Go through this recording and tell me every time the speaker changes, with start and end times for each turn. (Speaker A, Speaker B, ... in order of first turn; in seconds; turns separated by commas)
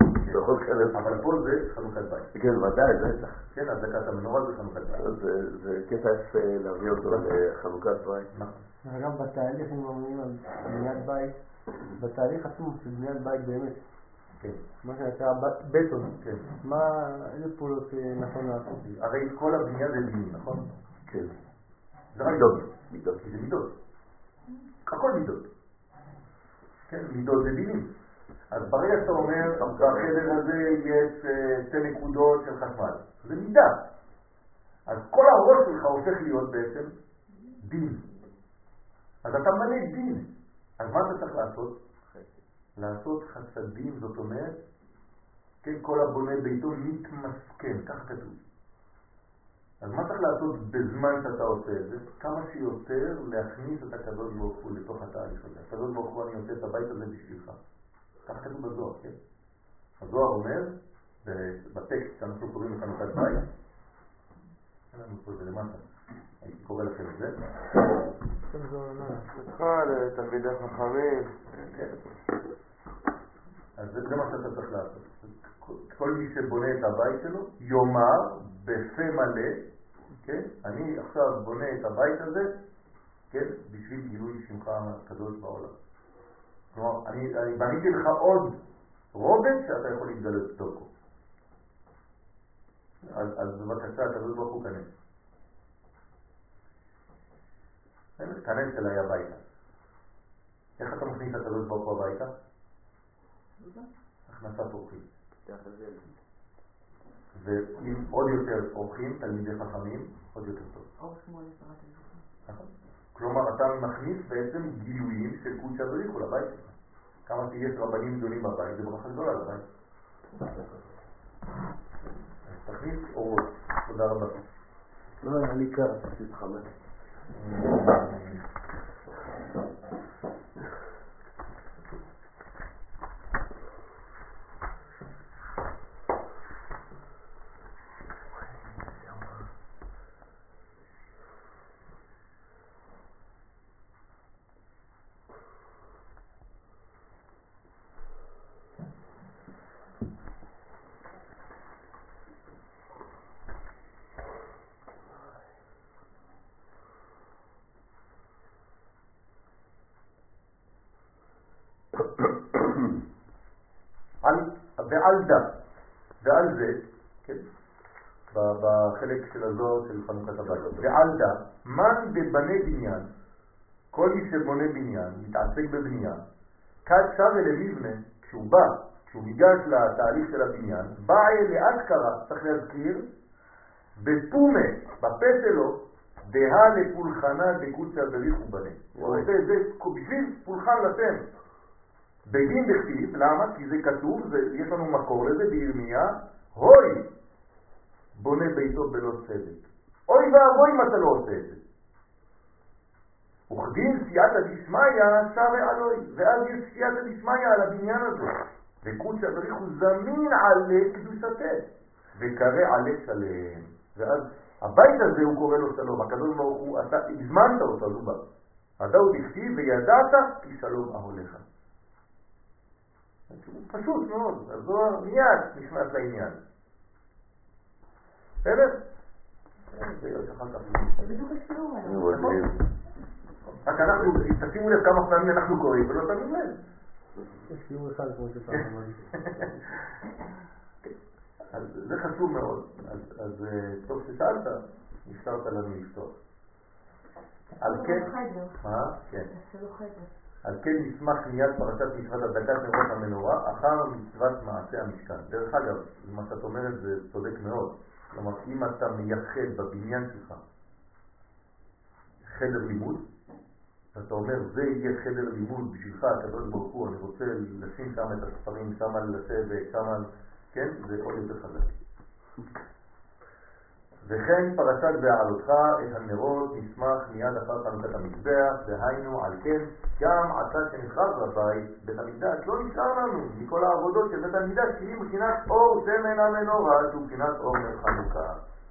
Speaker A: 0.2-2.3, Speaker B: 0.3-1.2, Speaker B: 2.3-3.4, Speaker A: 3.5-5.1, Speaker B: 5.0-8.3, Speaker A: 7.0-7.3, Speaker A: 8.3-8.6, Speaker C: 8.8-11.4, Speaker C: 11.9-13.8, Speaker C: 14.8-18.8, Speaker A: 16.2-16.5, Speaker A: 18.8-20.7, Speaker B: 21.1-21.4, Speaker A: 22.1-22.7, Speaker B: 22.2-23.2, Speaker A: 23.2-23.7, Speaker A: 24.9-25.5, Speaker A: 26.9-27.9, Speaker A: 28.5-33.8, Speaker B: 29.5-30.4, Speaker A: 34.9-36.9, Speaker A: 37.6-38.0, Speaker A: 39.2-40.3, Speaker A: 40.8-41.8, Speaker A: 42.8-44.6, Speaker A: 45.6-48.4, Speaker A: 49.8-57.6, Speaker A: 58.3-59.2, Speaker A: 60.0-63.5, Speaker A: 64.9-65.8, Speaker A: 66.4-67.4, Speaker D: 68.4-72.0, Speaker A: 73.8-79.6, Speaker A: 80.2-82.5, Speaker A: 83.3-85.7, Speaker A: 86.7-88.6, Speaker A: 89.1-90.9, Speaker A: 93.0-94.9, Speaker A: 98.2-99.4, Speaker A: 100.8-102.3, Speaker E: 103.6-103.9, Speaker A: 104.3-105.0, Speaker B: 105.5-106.1, Speaker A: 107.3-110.9, Speaker E: 111.0-112.2, Speaker A: 112.5-116.7, Speaker A: 117.3-119.6, Speaker A: 122.0-124.4, Speaker B: 125.2-126.7, Speaker A: 127.3-128.4, Speaker A: 164.2-165.6, Speaker A: 166.2-167.5, Speaker A: 168.3-173.1, Speaker A: 173.9-176.2, Speaker A: 176.8-183.1, Speaker A: 184.0-191.2, Speaker B: 188.9-189.3, Speaker A: 192.3-197.1, Speaker A: 198.1-201.6, Speaker A: 203.5-218.2, Speaker A: 218.8-221.4, Speaker A: 223.3-226.4, Speaker A: 228.4-228.8, Speaker A: 229.7-231.2, Speaker E: 231.0-232.3, Speaker B: 231.8-232.6, Speaker A: 232.1-232.4, Speaker A: 233.6-236.6, Speaker C: 237.5-239.1, Speaker A: 239.1-239.6, Speaker A: 241.5-246.2, Speaker A: 247.6-249.3, Speaker E: 247.6-248.7, Speaker E: 249.3-250.1, Speaker A: 250.4-260.4, Speaker A: 262.2-263.0, Speaker A: 263.9-271.8, Speaker A: 274.0-288.4